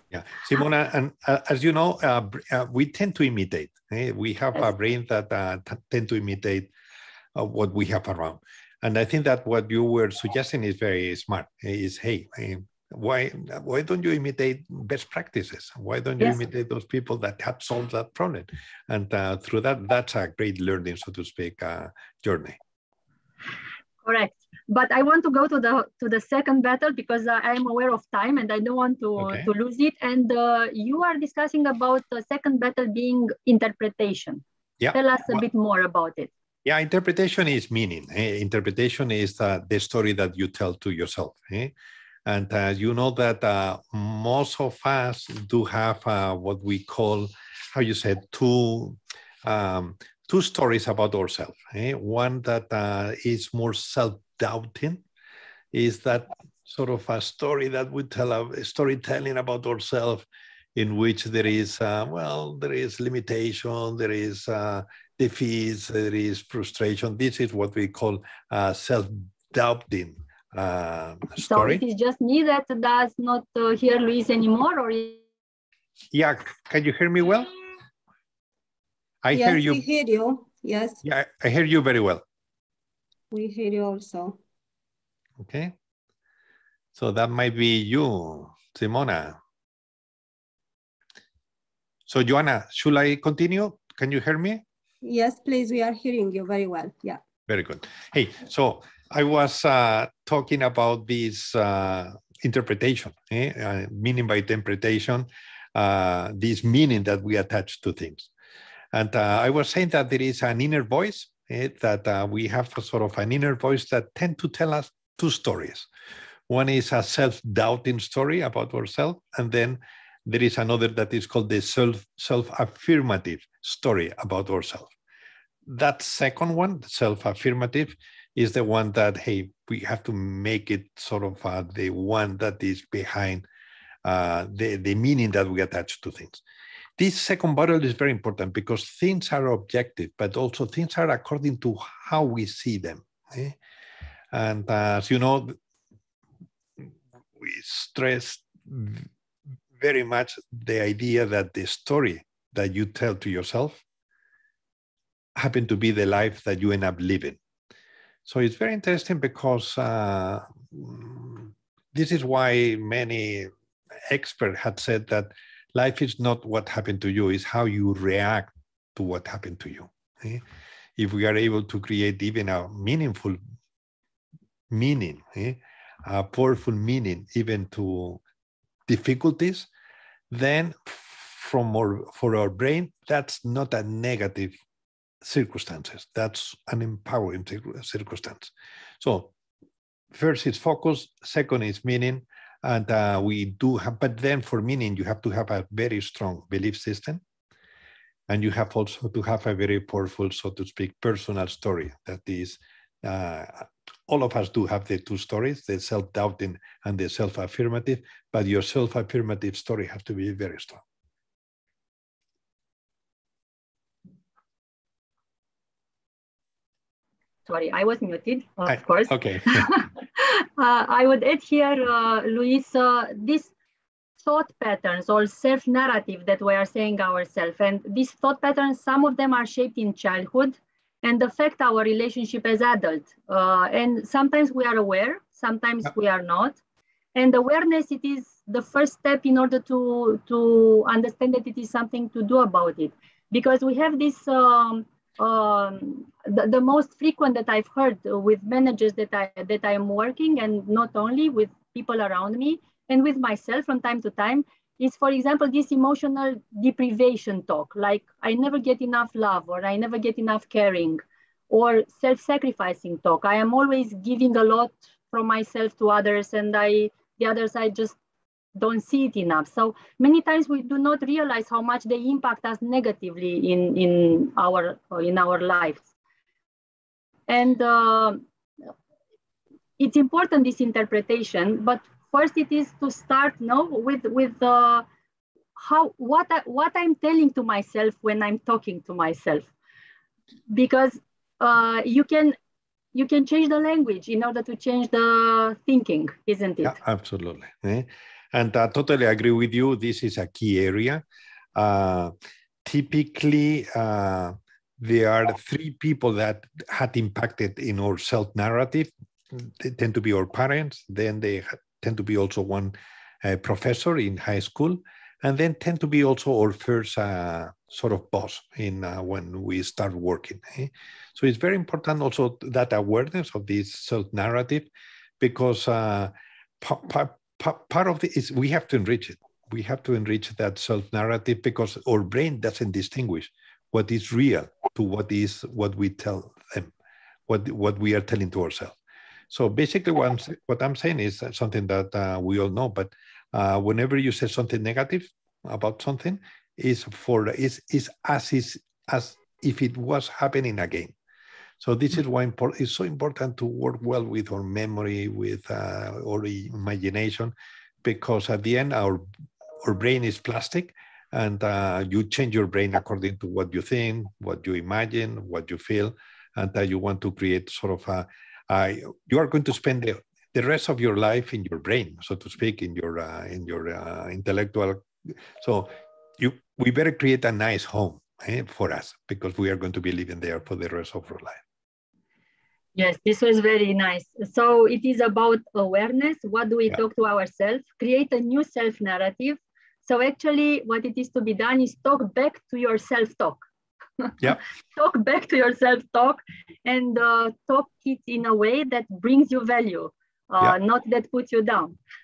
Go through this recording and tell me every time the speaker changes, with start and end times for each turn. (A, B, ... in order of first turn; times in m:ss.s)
0:00.1-0:06.7 A
0:07.4-0:22.6 A
0:24.0-0:36.3 B
0:29.2-0:29.5 A
0:34.8-0:35.4 A
0:36.6-0:41.7 A
0:42.3-0:55.0 A
0:55.7-1:11.8 A
1:11.4-1:15.2 B
1:16.1-1:17.5 A
1:19.2-1:19.8 A
1:19.3-1:21.0 C
1:21.0-1:22.2 A
1:23.3-1:24.4 C
1:25.4-1:25.8 A
1:27.0-1:29.4 A
1:32.1-1:34.6 A
1:35.0-1:37.2 C
1:37.5-1:48.3 A
1:48.9-1:55.9 A
1:56.5-2:04.9 A
2:05.7-2:13.4 A
2:14.0-2:16.4 A
2:17.0-2:23.6 A
2:24.3-2:25.6 A
2:26.8-2:29.1 A
2:29.8-2:33.8 A
2:35.4-2:37.4 A
2:38.3-2:43.5 A
2:44.1-2:50.4 A
2:51.0-2:53.4 A
2:54.7-2:58.2 A
2:58.9-2:59.7 A
3:00.3-3:04.6 A
3:05.2-3:09.3 A
3:10.1-3:17.2 A
3:18.3-3:30.8 A
3:37.5-3:43.5 B
3:38.7-3:39.7 A
3:44.2-3:56.6 B
3:57.2-4:28.0 B
4:28.6-4:35.9 B
4:37.3-4:38.2 B
4:39.8-4:44.9 B
4:45.6-4:49.5 B
4:50.5-4:52.4 B
4:52.9-4:56.8 B
4:56.6-5:01.0 A
5:01.6-5:36.7 A
5:37.3-5:38.8 A
5:39.3-5:51.0 A
5:51.6-5:57.3 A
5:57.8-5:59.0 A
5:59.6-6:21.4 A
6:22.8-6:33.5 B
6:34.0-6:41.8 B